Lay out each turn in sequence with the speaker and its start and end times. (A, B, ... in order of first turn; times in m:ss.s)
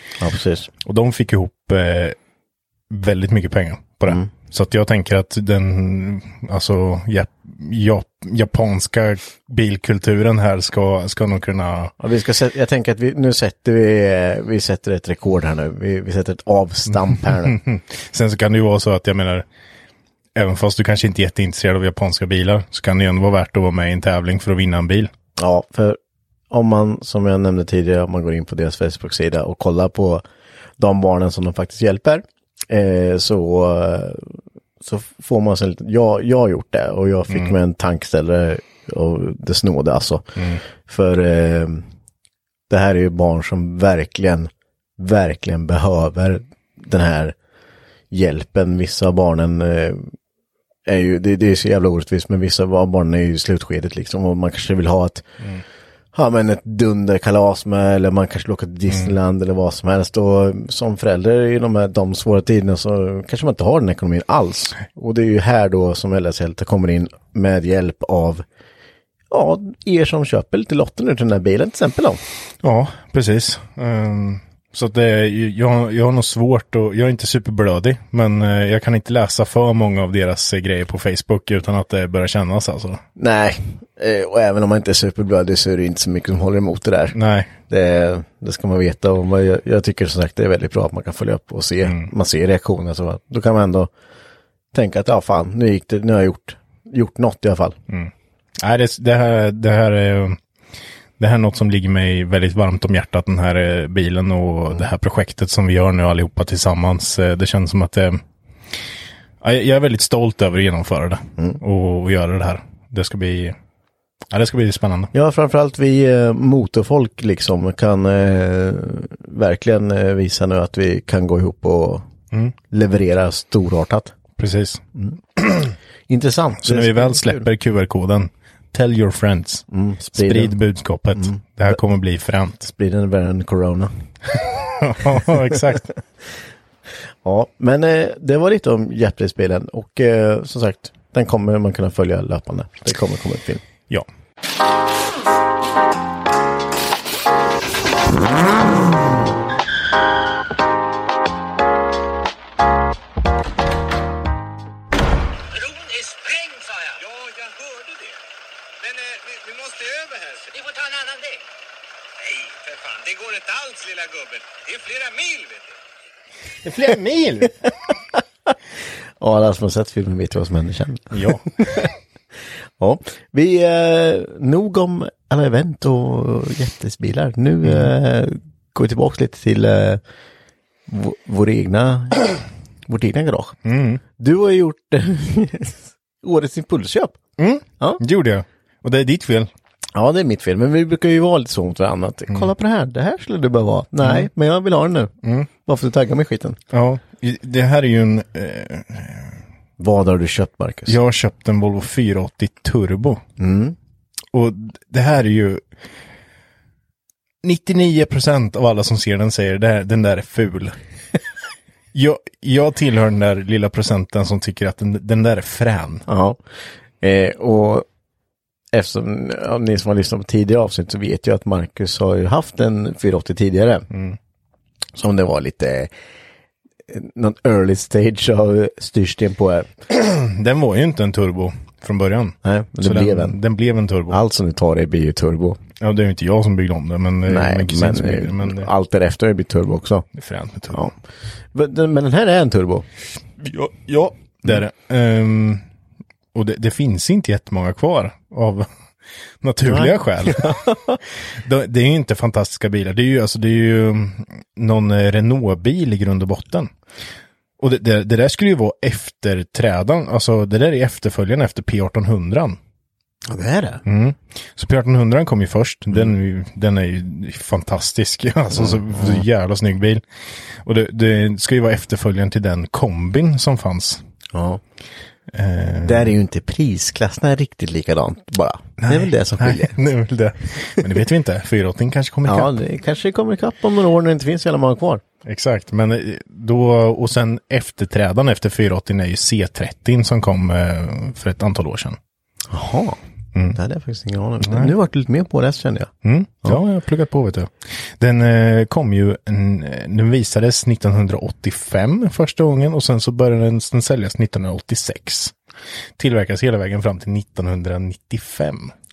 0:00.2-0:00.7 A
0:00.8-0:02.2 B
0:02.9-0:11.9 B
0:12.0-0:17.6 A
0:17.3-0:19.4 B
0:20.3-0:25.1 B
0:25.4-0:26.0 A
0:26.5-0:30.2 A
0:30.8-0:41.8 A
0:42.7-0:47.3 A
0:48.1-0:50.1 A
0:50.8-0:55.3 A
0:56.1-1:08.4 A
1:09.3-1:12.2 A
1:12.6-1:23.0 B
1:23.2-1:27.2 A
1:27.1-1:27.5 B
1:27.7-1:33.9 A
1:31.8-1:32.1 B
1:34.7-1:37.8 A
1:37.9-1:40.4 B
1:41.2-1:48.2 B
1:49.4-1:53.5 B
1:54.3-1:55.1 B
1:55.1-2:02.1 A
2:02.7-2:04.2 A
2:04.4-2:04.8 B
2:05.4-2:05.7 B
2:06.1-2:07.4 A
2:06.6-2:12.6 B
2:09.7-2:10.5 A
2:11.1-2:11.8 A
2:12.6-2:13.9 A
2:14.5-2:15.9 B
2:15.1-2:15.4 A
2:17.2-2:23.6 A
2:35.5-2:38.2 C
2:38.8-2:41.4 C
2:42.2-2:45.8 C
2:46.6-2:47.6 B
2:49.2-2:51.9 A
2:51.1-2:51.8 B
2:52.8-3:00.0 A
3:00.9-3:02.4 A
3:02.9-3:03.6 A
3:03.6-3:04.0 B
3:04.2-3:07.2 A
3:07.4-3:09.5 B
3:09.9-3:15.1 A
3:14.0-3:14.3 B
3:15.6-3:16.6 A
3:16.7-3:19.3 B
3:19.8-3:21.0 A
3:20.9-3:23.2 B
3:23.4-3:23.8 A
3:24.3-3:25.6 B
3:27.4-3:30.7 B
3:31.9-3:36.0 B
3:36.1-3:36.4 A
3:37.0-3:37.9 A
3:38.7-3:43.8 A
3:45.0-3:45.9 A
3:46.9-3:49.7 A
3:49.9-3:54.2 B
3:52.4-3:53.4 A
3:54.1-3:55.6 A
3:55.8-3:58.7 B
3:57.2-4:00.1 A
4:00.2-4:00.9 B
4:01.5-4:02.9 A
4:03.4-4:05.6 B
4:06.3-4:08.7 B
4:09.4-4:10.7 B
4:09.6-4:11.0 A
4:11.2-4:16.7 B
4:17.6-4:22.6 B
4:23.3-4:23.8 A
4:23.8-4:30.0 B
4:28.5-4:29.2 A
4:30.6-4:34.0 B
4:34.3-4:34.6 A
4:35.3-4:36.1 B
4:35.8-4:39.8 A
4:38.8-4:42.6 B
4:42.2-4:45.0 A
4:45.2-4:52.0 B
4:52.5-4:53.0 A
4:53.5-4:55.9 A
4:54.4-4:54.7 B
4:56.0-5:05.3 B
5:06.0-5:08.7 B